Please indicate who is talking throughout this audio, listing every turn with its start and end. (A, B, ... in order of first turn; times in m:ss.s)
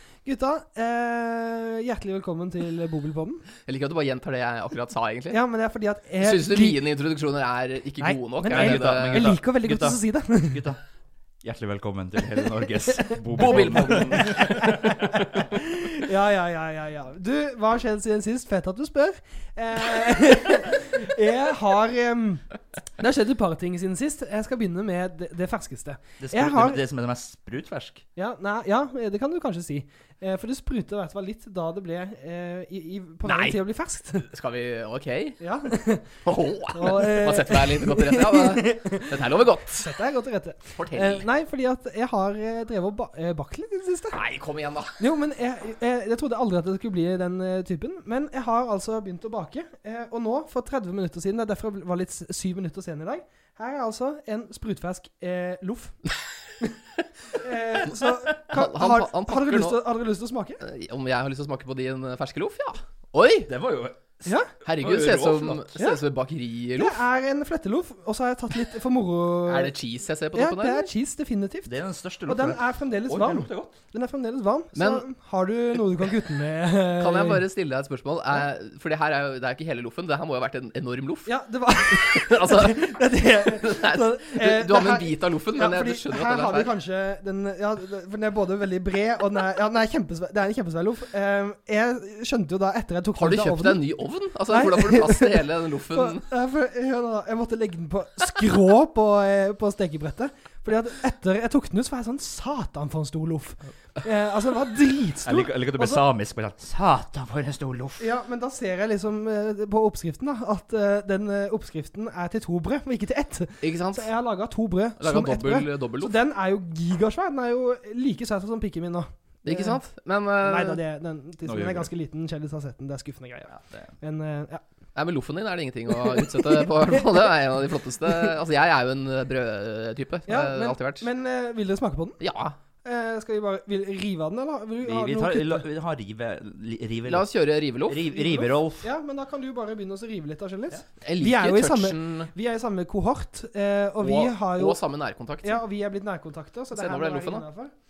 0:00.2-0:03.4 A
0:03.6-0:05.4 B
0:05.3-0:06.8 A
0:06.2-0:09.3 B
0:08.0-0:10.7 A
0:08.5-0:10.8 C
0:11.4-0:15.2 C
0:13.1-0:22.5 A
0:13.3-0:14.9 B
0:23.0-0:26.8 A
0:26.2-0:28.0 C
0:28.2-0:34.3 A
0:33.2-0:33.6 B
0:34.2-0:35.4 B
0:35.4-0:36.2 A
0:36.2-0:39.9 B
0:36.7-0:44.2 A
0:40.7-0:41.3 B
0:44.1-0:45.0 B
0:45.0-0:56.0 A
0:57.3-1:00.6 A
0:58.4-0:59.8 B
1:00.6-1:03.5 B
1:03.5-1:05.7 C
1:04.2-1:04.5 A
1:04.6-1:07.0 B
1:06.8-1:09.7 A
1:09.5-1:10.9 B
1:10.3-1:11.7 A
1:11.7-1:13.7 C
1:12.3-1:17.5 A
1:14.8-1:15.0 B
1:17.0-1:21.3 B
1:21.3-1:33.9 A
1:21.9-1:26.7 B
1:33.2-1:36.2 B
1:34.5-1:46.0 A
1:45.2-1:48.0 C
1:48.0-1:59.8 A
1:53.6-1:54.1 B
1:55.0-1:56.2 B
1:59.4-2:00.8 B
2:00.4-2:04.6 A
2:01.4-2:01.9 C
2:03.5-2:03.9 C
2:05.0-2:11.1 B
2:10.3-2:12.2 A
2:12.2-2:12.6 B
2:12.8-2:15.6 A
2:14.8-2:17.3 C
2:17.1-2:18.3 B
2:17.9-2:18.9 C
2:18.3-2:24.8 A
2:21.0-2:22.3 B
2:24.0-2:25.6 B
2:25.4-2:27.7 A
2:26.7-2:27.4 B